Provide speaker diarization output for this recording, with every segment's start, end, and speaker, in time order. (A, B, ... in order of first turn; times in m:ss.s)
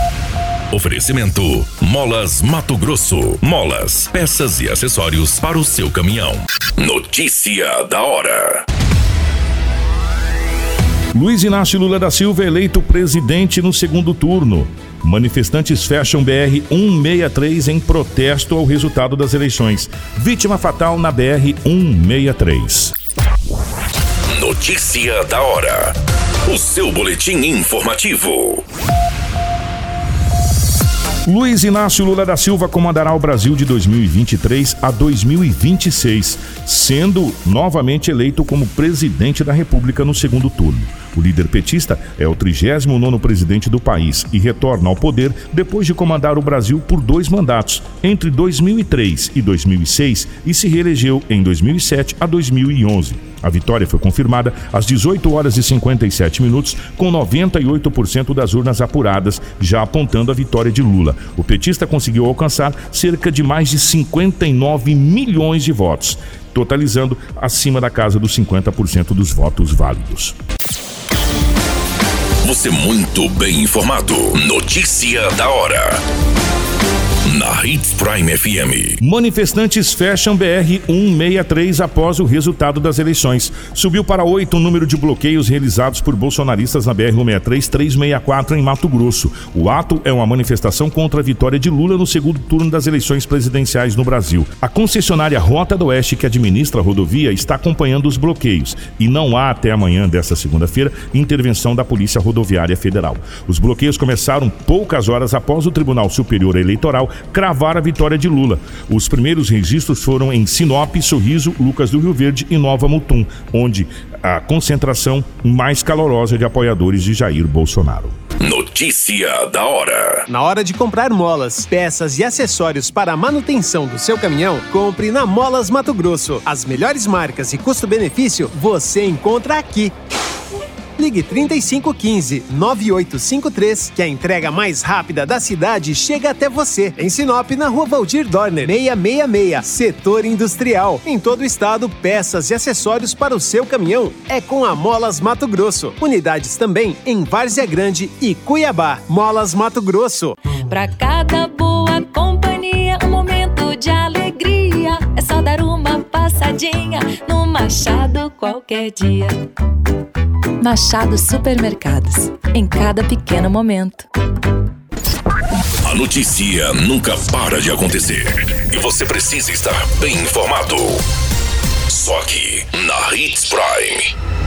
0:00.7-0:08.6 A
0:11.1-0:22.9 B
0:24.3-0:28.6 A
0:31.2-1:10.4 B
1:12.4-1:16.0 A
1:17.2-1:19.0 A
1:19.0-1:58.2 B
1:58.4-2:00.3 A
2:00.3-2:09.9 C
2:11.0-2:30.4 C
2:30.6-2:39.4 D
2:40.6-2:44.1 D
2:45.8-2:51.0 A
2:51.9-2:54.1 A